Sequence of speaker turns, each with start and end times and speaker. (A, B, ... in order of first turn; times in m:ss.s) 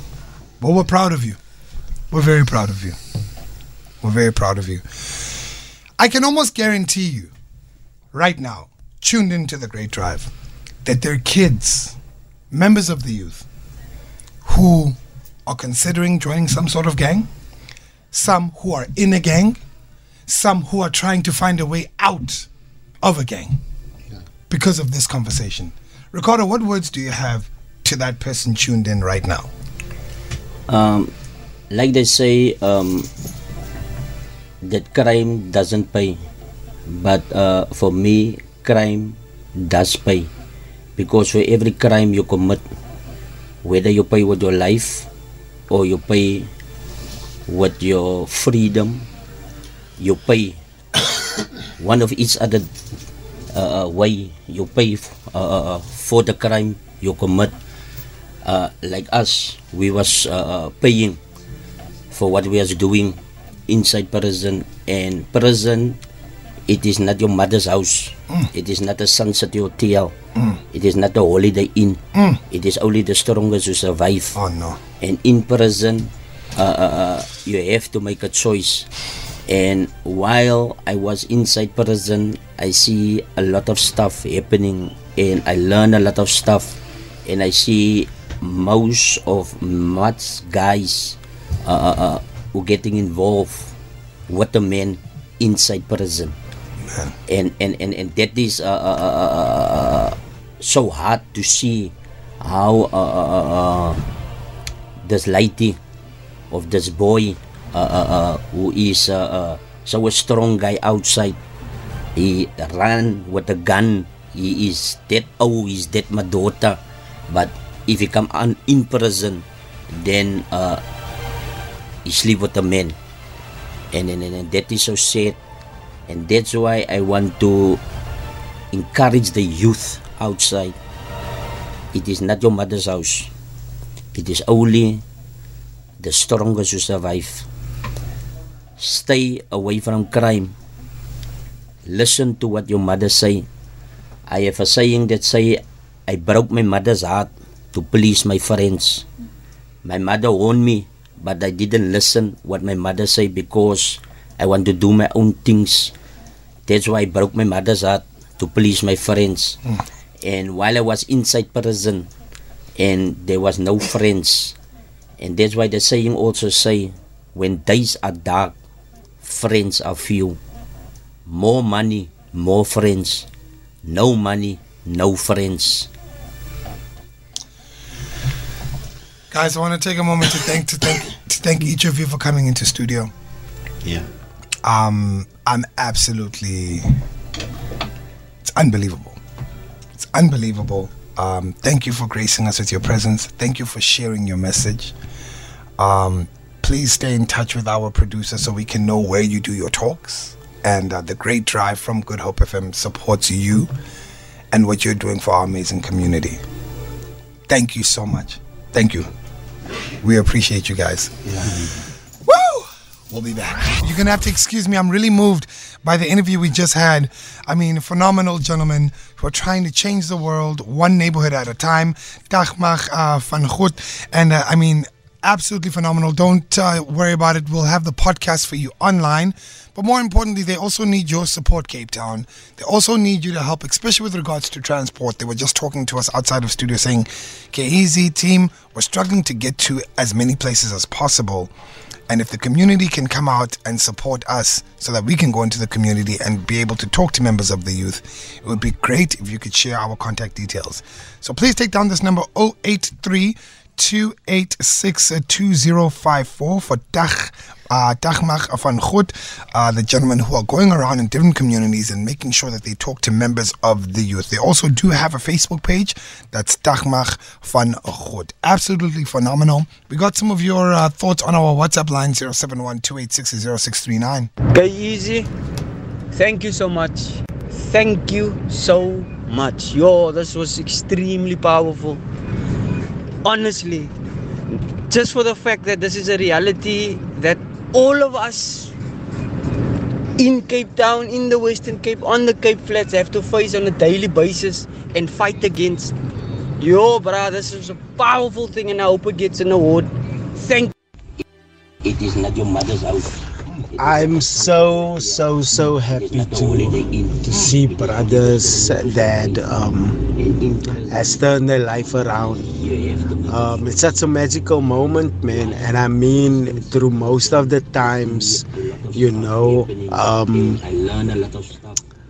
0:00.6-0:01.4 A
0:02.1-0:03.0 A
0:04.0-0:05.3 A
0:06.0-0:07.3 A
0:08.1-0:10.3 A
0:10.8-0:12.0 A
0:12.5-0:13.4 A
0:14.4-0:17.3 A
0:18.1-0:19.6 A
0:20.3-0:22.5 A
0:23.0-0:23.6 A
0:24.5-0:29.5 A
0:30.7-0:31.1 B
0:31.7-0:33.1 B
0:34.6-0:36.2 B
0:36.8-0:40.3 B
0:41.0-0:42.6 B
0:43.6-0:45.1 B
0:45.7-0:46.5 B
0:47.5-0:49.1 B
0:50.0-0:50.6 B
0:51.8-0:52.7 B
0:53.5-0:57.5 B
0:58.4-1:01.2 B
1:02.1-1:06.0 B
1:06.7-1:10.1 B
1:10.3-1:10.6 A
1:10.7-1:14.4 B
1:12.1-1:12.4 A
1:14.3-1:14.8 A
1:15.0-1:18.9 B
1:19.5-1:33.7 B
1:34.3-1:36.4 B
1:36.8-1:37.2 A
1:37.3-1:44.0 B
1:45.0-1:45.8 B
1:46.5-1:51.4 B
1:52.1-2:00.8 B
2:02.0-2:03.0 B
2:03.9-2:05.4 B
2:06.1-2:07.8 B
2:08.7-2:10.8 B
2:11.9-2:13.3 B
2:14.1-2:15.0 B
2:16.0-2:17.4 B
2:18.8-2:20.5 B
2:21.8-2:23.5 B
2:24.3-2:29.0 B
2:29.8-2:35.9 B
2:36.7-2:39.6 B
2:40.2-2:42.1 B
2:42.8-2:44.6 B
2:45.2-2:48.5 B
2:49.2-2:50.4 B
2:51.2-2:53.3 B
2:53.8-2:55.9 B
2:59.3-3:03.1 A
3:04.6-3:07.0 A
3:08.4-3:09.2 A
3:10.0-3:14.9 A
3:15.8-3:23.7 A
3:24.5-3:26.4 A
3:27.5-3:29.1 A
3:30.0-3:31.4 A
3:32.2-4:01.5 A
4:02.1-4:34.3 A
4:34.5-4:35.3 C
4:36.1-4:42.0 C
4:43.2-4:43.9 C
4:44.9-4:48.7 C
4:50.2-4:56.0 C
4:56.6-5:00.7 C
5:01.8-5:03.2 B
5:03.8-5:10.1 D
5:03.8-5:09.4 B
5:10.1-5:14.0 B
5:10.9-5:12.5 D
5:13.2-5:20.6 D
5:14.9-5:21.8 B